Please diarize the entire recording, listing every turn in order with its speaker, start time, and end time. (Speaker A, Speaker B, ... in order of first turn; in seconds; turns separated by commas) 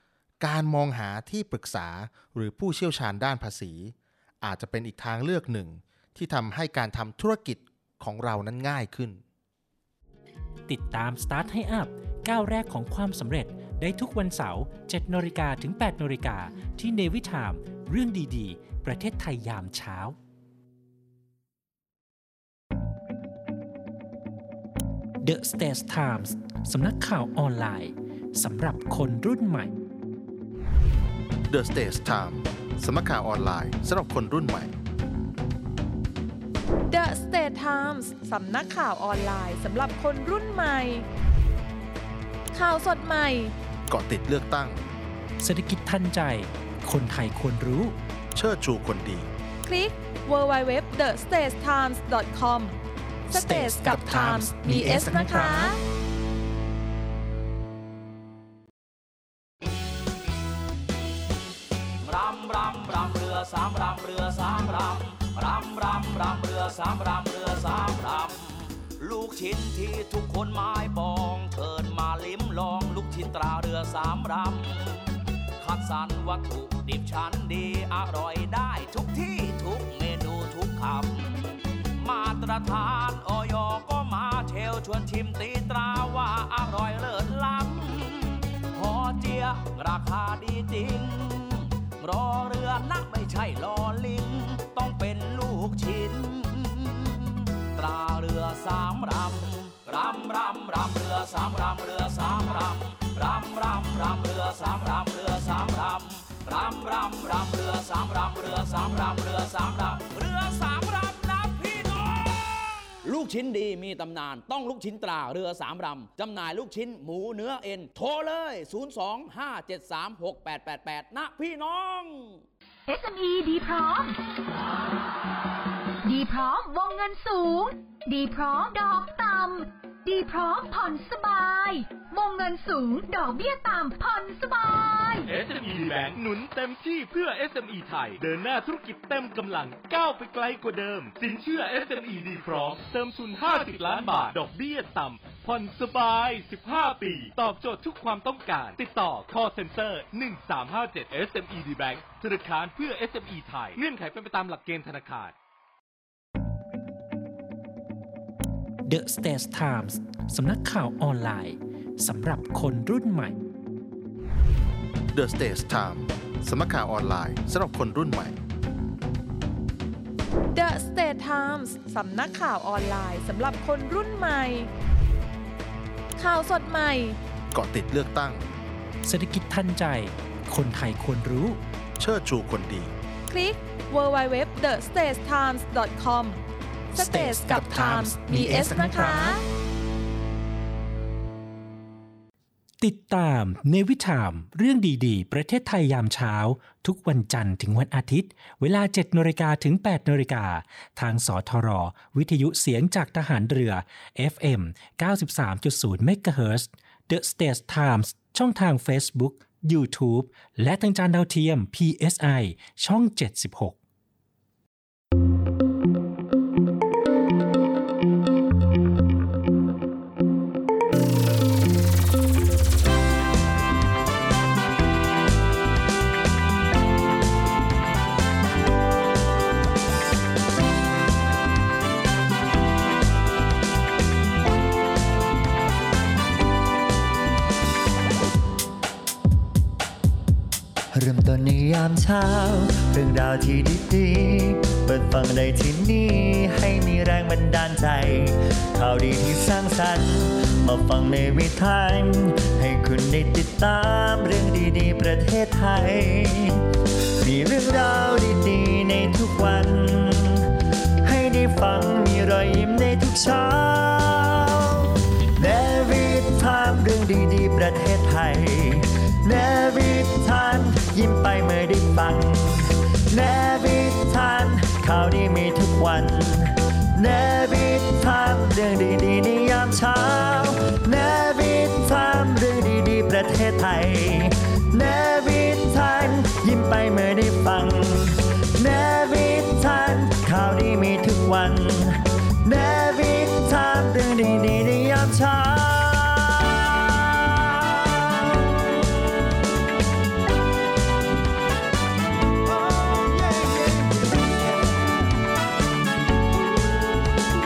Speaker A: 0.4-9.2, Speaker B: 10.7-20.1, Speaker B: 25.2-29.7, Speaker A: 31.5-34.7, Speaker C: 36.9-41.0, Speaker C: 42.5-43.5, Speaker A: 43.9-44.8, Speaker B: 45.4-48.0, Speaker A: 48.3-49.3, Speaker C: 49.6-52.8, Speaker C: 53.3-55.8, Speaker A: 53.3-55.6, Speaker B: 53.5-54.5, Speaker B: 55.0-55.5, Speaker D: 62.0-122.4, Speaker E: 122.9-124.1, Speaker E: 126.0-135.3, Speaker F: 135.2-155.3, Speaker B: 158.8-163.3, Speaker A: 165.1-168.3, Speaker C: 170.5-174.7, Speaker C: 176.2-177.2, Speaker A: 177.5-178.4, Speaker B: 179.0-181.6, Speaker A: 182.0-182.9, Speaker C: 183.3-186.4, Speaker B: 186.9-189.3, Speaker C: 186.9-189.4, Speaker A: 188.4-189.2, Speaker B: 192.8-213.8, Speaker G: 240.9-256.7, Speaker G: 257.2-299.1, Speaker A: 302.7-304.0